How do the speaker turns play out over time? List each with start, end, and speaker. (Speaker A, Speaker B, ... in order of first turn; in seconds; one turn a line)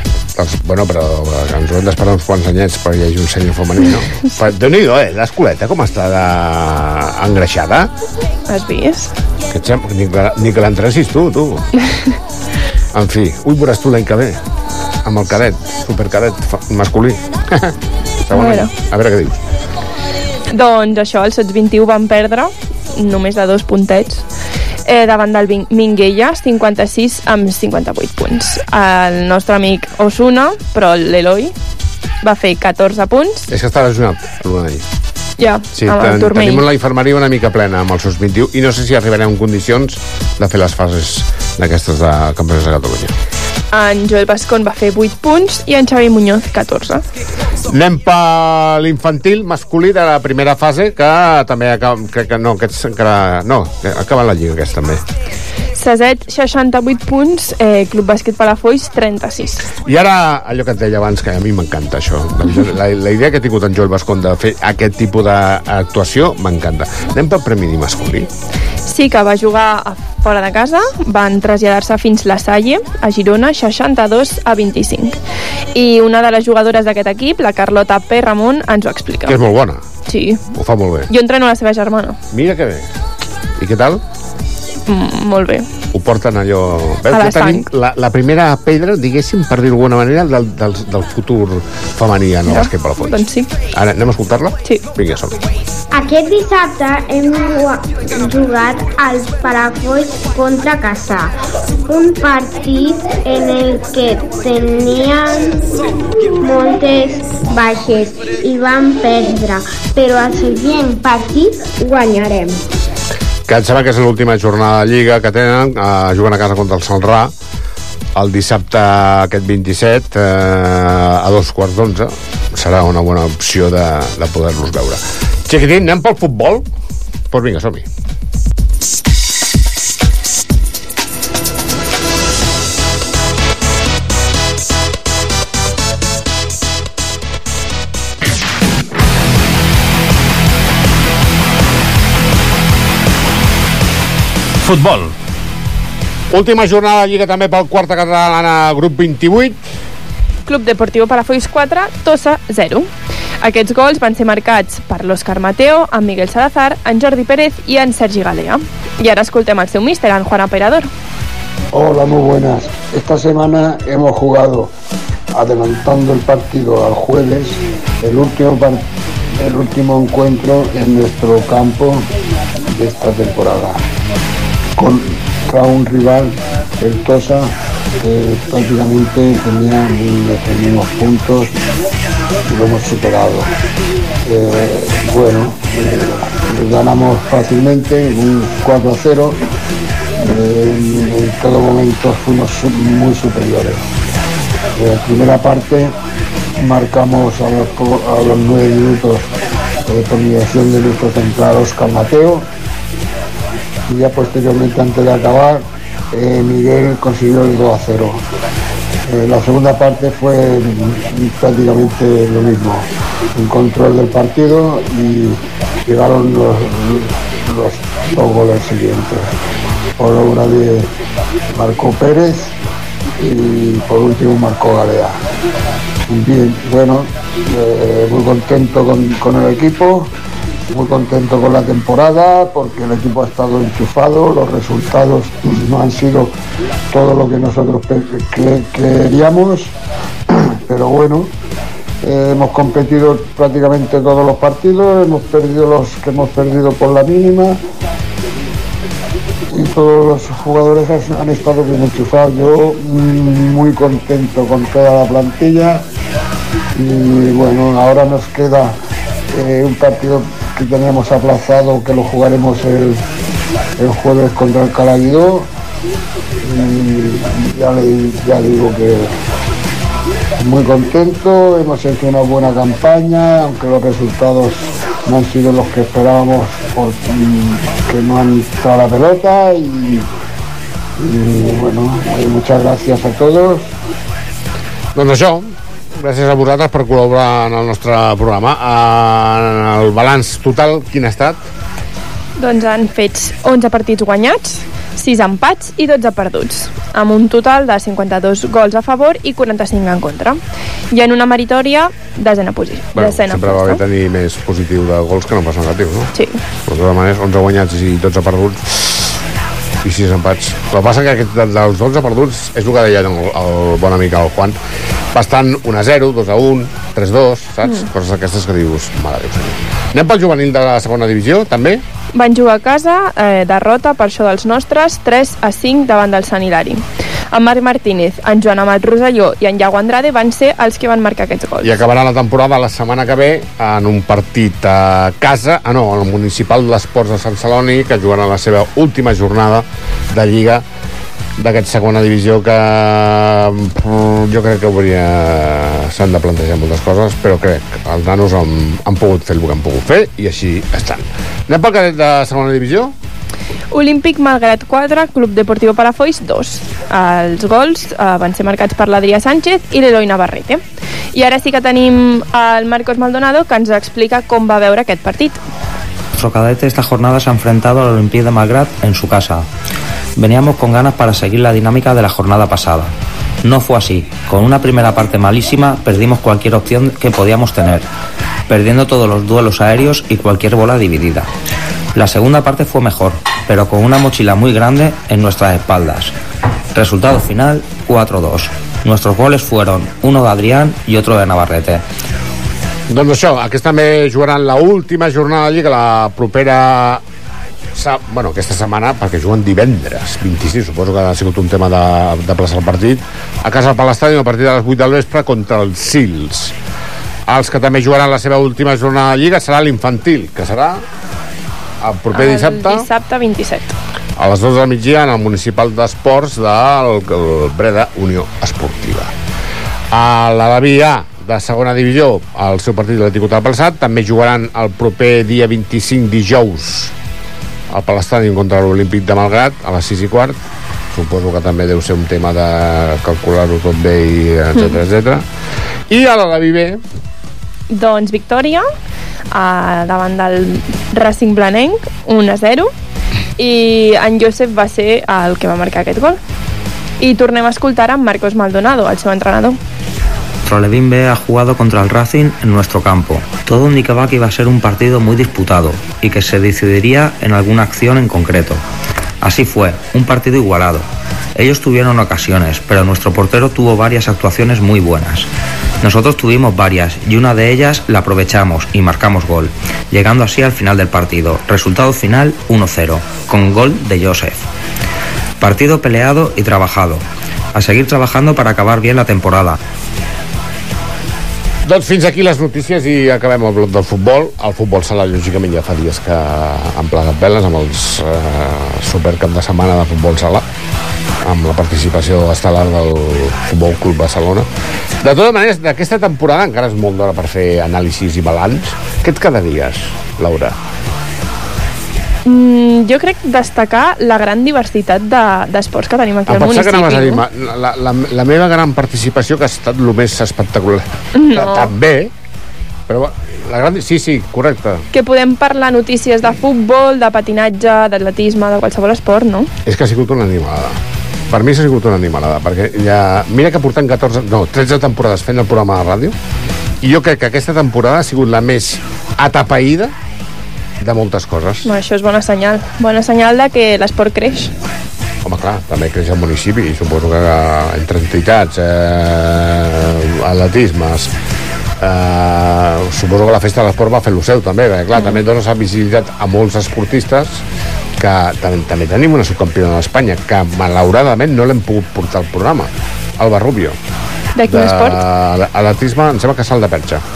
Speaker A: 0.3-7.9
Speaker B: 8.5-9.1
Speaker A: 9.5-11.7
Speaker A: 12.9-14.4
Speaker A: 15.0-17.7
Speaker A: 18.2-19.4
Speaker B: 18.3-18.7
Speaker B: 20.5-24.2
Speaker B: 24.9-31.5
Speaker B: 32.2-33.5
Speaker A: 33.5-34.8
Speaker B: 35.4-36.6
Speaker A: 35.7-43.1
Speaker B: 43.7-47.0
Speaker A: 47.7-55.0
Speaker B: 55.7-59.7
Speaker A: 59.8-68.3
Speaker B: 68.9-75.2
Speaker B: 75.7-79.4
Speaker A: 79.3-79.8
Speaker B: 80.1-80.4
Speaker A: 80.5-81.1
Speaker B: 81.1-82.2
Speaker A: 82.3-82.9
Speaker A: 83.6-84.0
Speaker B: 84.9-85.7
Speaker A: 85.9-93.2
Speaker B: 87.1-87.7
Speaker B: 92.5-93.5
Speaker A: 93.7-95.4
Speaker C: 95.9-101.3
Speaker C: 101.9-105.5
Speaker C: 106.4-112.6
Speaker A: 113.5-117.3
Speaker A: 118.1-126.6
Speaker A: 127.3-127.8
Speaker A: 146.3-149.6
Speaker B: 150.5-152.9
Speaker B: 153.4-160.9
Speaker D: 161.7-164.7
Speaker D: 165.3-168.8
Speaker D: 169.4-172.0
Speaker D: 172.7-173.8
Speaker D: 174.8-177.5
Speaker D: 178.0-181.5
Speaker D: 182.5-183.5
Speaker D: 184.2-189.4
Speaker D: 190.2-193.8
Speaker D: 194.8-195.9
Speaker D: 196.6-199.3
Speaker D: 199.9-202.4
Speaker D: 203.9-208.2
Speaker D: 209.1-212.8
Speaker D: 213.4-219.2
Speaker D: 220.0-220.8
Speaker D: 221.6-222.5
Speaker D: 223.2-225.1
Speaker D: 226.1-230.1
Speaker D: 230.7-236.3
Speaker D: 236.9-239.7
Speaker D: 240.7-241.3
Speaker D: 242.0-247.6
Speaker D: 249.5-255.8
Speaker D: 256.8-258.7
Speaker D: 259.3-263.0
Speaker D: 263.8-265.5
Speaker D: 266.4-269.1
Speaker D: 270.4-280.0
Speaker D: 281.0-283.6
Speaker A: 284.9-291.4
Speaker B: 292.4-300.4
Speaker B: 300.9-303.8
Speaker A: 302.9-306.1
Speaker A: 306.7-309.1
Speaker A: 309.8-314.5
Speaker A: 315.1-321.8
Speaker B: 322.1-331.7
Speaker A: 331.6-340.6
Speaker A: 341.4-352.9
Speaker B: 353.7-360.6
Speaker B: 361.1-365.4
Speaker E: 366.1-369.4
Speaker E: 370.2-372.9
Speaker E: 373.4-377.9
Speaker E: 378.5-381.3
Speaker E: 381.9-386.1
Speaker E: 386.7-391.8
Speaker A: 392.9-397.0
Speaker A: 397.7-406.5
Speaker A: 407.3-410.8
Speaker A: 411.8-412.9
Speaker B: 412.1-413.7
Speaker A: 414.2-419.1
Speaker A: 419.9-426.9
Speaker A: 427.7-430.4
Speaker A: 430.9-435.2
Speaker A: 435.9-436.8
Speaker B: 437.7-438.6
Speaker B: 439.3-442.7
Speaker B: 443.4-446.2
Speaker B: 447.0-449.6
Speaker E: 450.4-458.6
Speaker E: 459.2-465.3
Speaker E: 465.8-474.4
Speaker E: 475.4-479.6
Speaker A: 481.6-490.4
Speaker A: 491.2-494.4
Speaker A: 495.0-500.6
Speaker B: 502.2-507.2
Speaker A: 506.3-512.1
Speaker B: 511.1-511.7
Speaker A: 512.9-514.8
Speaker B: 514.9-519.5
Speaker A: 519.6-520.8
Speaker A: 521.3-526.1
Speaker A: 526.8-529.9
Speaker A: 530.8-531.7
Speaker B: 531.6-534.5
Speaker A: 535.2-541.1
Speaker A: 541.8-547.4
Speaker A: 548.0-553.8
Speaker B: 554.4-555.0
Speaker A: 554.5-557.0